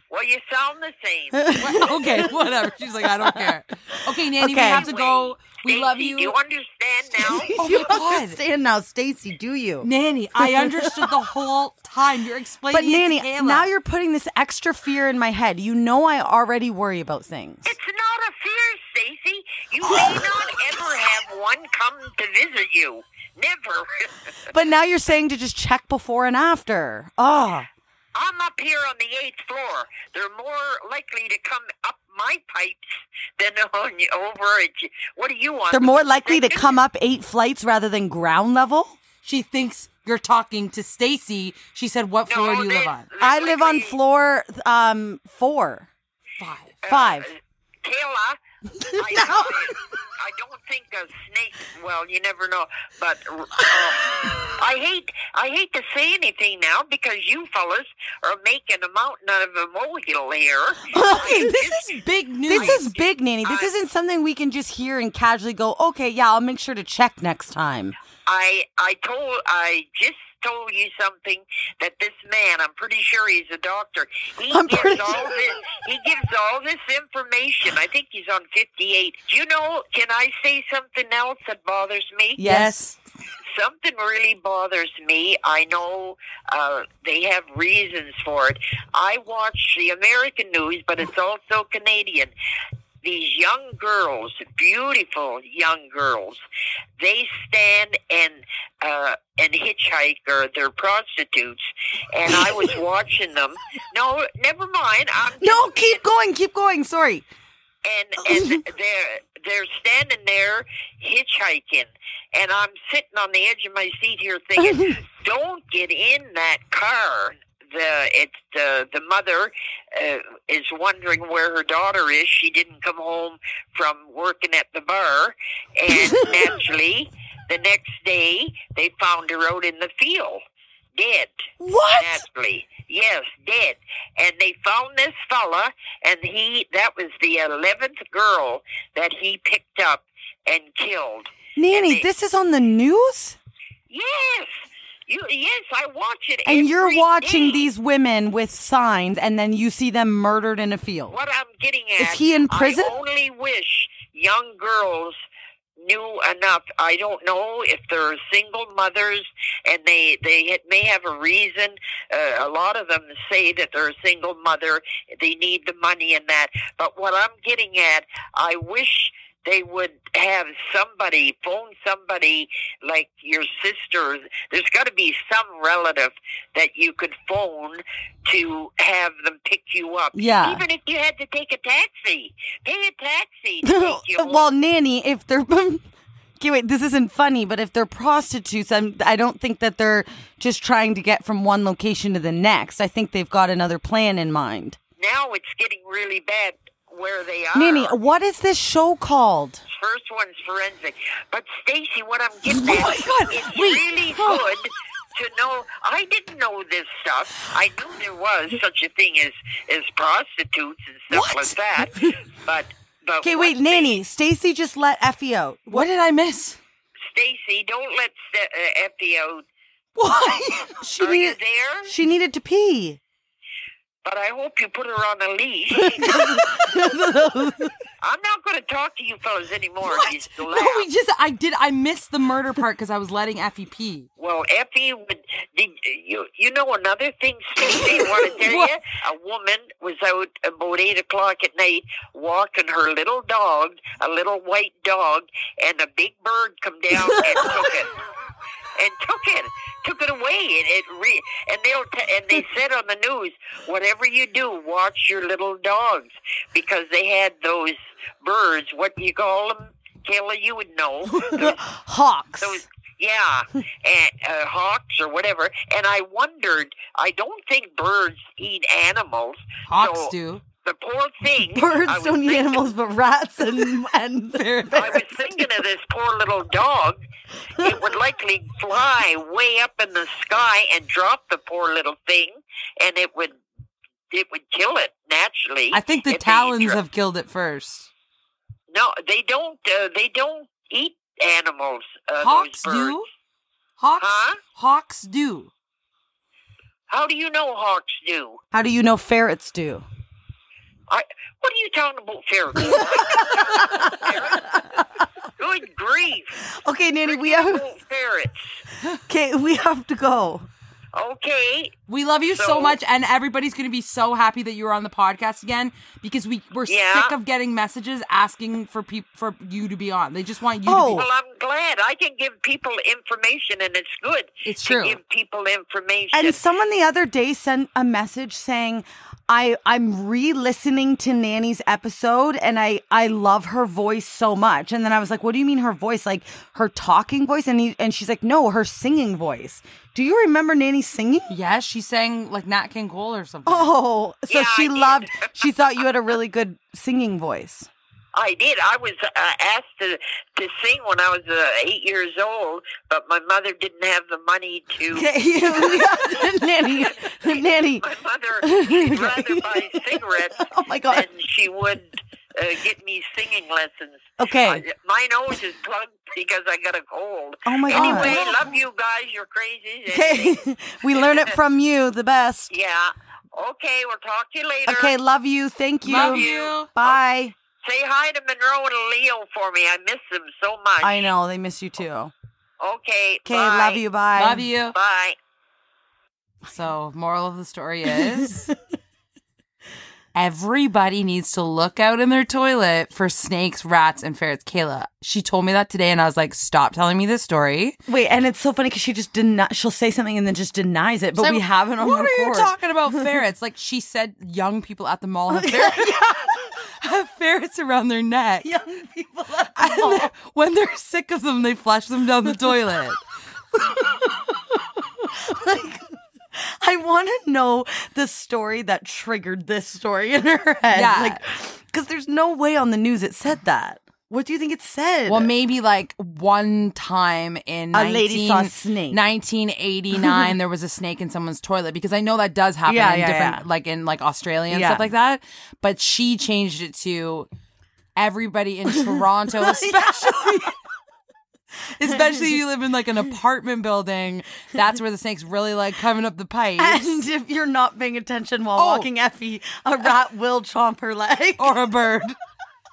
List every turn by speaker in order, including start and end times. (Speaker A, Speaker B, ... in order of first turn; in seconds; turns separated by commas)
Speaker A: 0.1-1.9, Speaker B: 1.3-4.8, Speaker C: 1.6-6.3, Speaker A: 4.6-7.5, Speaker B: 7.2-11.1, Speaker C: 7.6-8.4, Speaker C: 9.8-13.7, Speaker B: 12.7-17.7, Speaker A: 17.6-24.3, Speaker B: 24.5-27.7, Speaker A: 28.1-32.8, Speaker A: 33.4-36.8, Speaker B: 35.7-39.0, Speaker C: 39.2-43.1, Speaker A: 42.3-44.0, Speaker B: 43.2-45.9, Speaker C: 46.4-46.8, Speaker A: 46.8-48.4, Speaker B: 46.9-47.3, Speaker B: 48.8-49.7, Speaker A: 49.0-62.0, Speaker B: 54.0-54.5, Speaker B: 60.9-61.9, Speaker C: 61.5-62.9, Speaker B: 62.5-68.0, Speaker A: 62.5-63.7, Speaker A: 68.2-82.5, Speaker B: 74.5-75.3, Speaker B: 82.4-82.9, Speaker C: 82.4-82.9, Speaker A: 83.5-92.3, Speaker A: 93.0-96.4, Speaker A: 97.0-106.0, Speaker B: 102.4-102.6, Speaker B: 105.4-107.2, Speaker A: 107.8-130.4, Speaker B: 108.3-108.6, Speaker B: 114.6-115.0, Speaker B: 126.0-126.3, Speaker A: 130.9-131.4, Speaker B: 131.6-132.2, Speaker A: 131.9-142.1, Speaker B: 141.6-143.4, Speaker A: 143.9-144.6, Speaker A: 145.1-147.7, Speaker B: 146.4-151.2, Speaker A: 151.1-155.2, Speaker B: 152.0-152.9, Speaker A: 155.8-184.5, Speaker B: 180.1-180.6, Speaker B: 183.6-185.9, Speaker B: 186.4-194.8, Speaker A: 195.0-197.9, Speaker B: 197.5-199.6, Speaker A: 199.7-214.0, Speaker C: 202.4-204.4, Speaker C: 211.1-211.8, Speaker B: 213.2-215.9, Speaker C: 215.7-216.6, Speaker A: 217.1-219.4, Speaker C: 220.0-221.3, Speaker A: 221.0-221.9, Speaker B: 221.0-221.3, Speaker B: 221.8-223.0, Speaker A: 224.0-226.1, Speaker B: 225.8-227.8, Speaker C: 226.2-226.5, Speaker A: 228.0-230.8, Speaker C: 229.8-234.1, Speaker A: 234.2-247.9, Speaker C: 238.3-238.7, Speaker A: 248.8-261.6, Speaker B: 261.1-262.6, Speaker A: 262.4-272.7, Speaker C: 269.7-270.4, Speaker B: 271.5-275.1, Speaker C: 274.3-275.0, Speaker A: 274.7-277.0, Speaker A: 277.6-283.4, Speaker A: 284.1-286.8, Speaker C: 285.7-287.9, Speaker A: 288.7-293.0, Speaker C: 292.2-293.1, Speaker C: 293.8-295.5, Speaker A: 294.0-294.4, Speaker A: 296.9-298.4, Speaker B: 298.5-299.8, Speaker A: 300.9-304.8, Speaker B: 302.6-304.9, Speaker A: 305.4-306.4, Speaker B: 306.4-307.7, Speaker A: 307.0-308.6, Speaker B: 309.1-310.5, Speaker A: 310.9-311.8, Speaker C: 311.9-321.0, Speaker A: 312.3-312.8, Speaker A: 316.7-317.1, Speaker B: 320.6-321.1, Speaker A: 320.8-326.4, Speaker C: 324.4-325.0, Speaker B: 326.1-341.3, Speaker C: 341.3-343.7, Speaker B: 343.4-347.7, Speaker A: 344.3-345.3, Speaker A: 348.1-371.3, Speaker B: 354.9-357.8, Speaker B: 358.4-361.1, Speaker B: 364.2-364.6, Speaker B: 367.4-368.2, Speaker C: 367.7-368.4, Speaker B: 369.9-372.5, Speaker A: 372.5-374.9, Speaker B: 374.6-377.3, Speaker C: 375.8-376.7, Speaker A: 375.9-377.0, Speaker A: 377.6-381.1, Speaker B: 380.8-382.1, Speaker A: 382.6-383.8, Speaker B: 383.2-384.5, Speaker C: 384.1-384.8, Speaker A: 384.7-385.2, Speaker C: 386.4-388.5, Speaker C: 390.1-397.8, Speaker B: 397.9-403.0, Speaker C: 401.1-408.5, Speaker B: 405.3-406.3, Speaker B: 408.4-410.1, Speaker C: 409.6-413.0, Speaker B: 414.1-414.4, Speaker B: 415.0-425.3, Speaker C: 420.7-421.2, Speaker C: 425.1-437.3, Speaker B: 427.7-429.0, Speaker B: 432.6-433.4, Speaker B: 434.5-434.8, Speaker C: 437.9-440.5, Speaker B: 438.8-440.5, Speaker C: 441.8-447.1, Speaker B: 446.6-451.6, Speaker C: 448.6-448.9, Speaker C: 451.4-452.1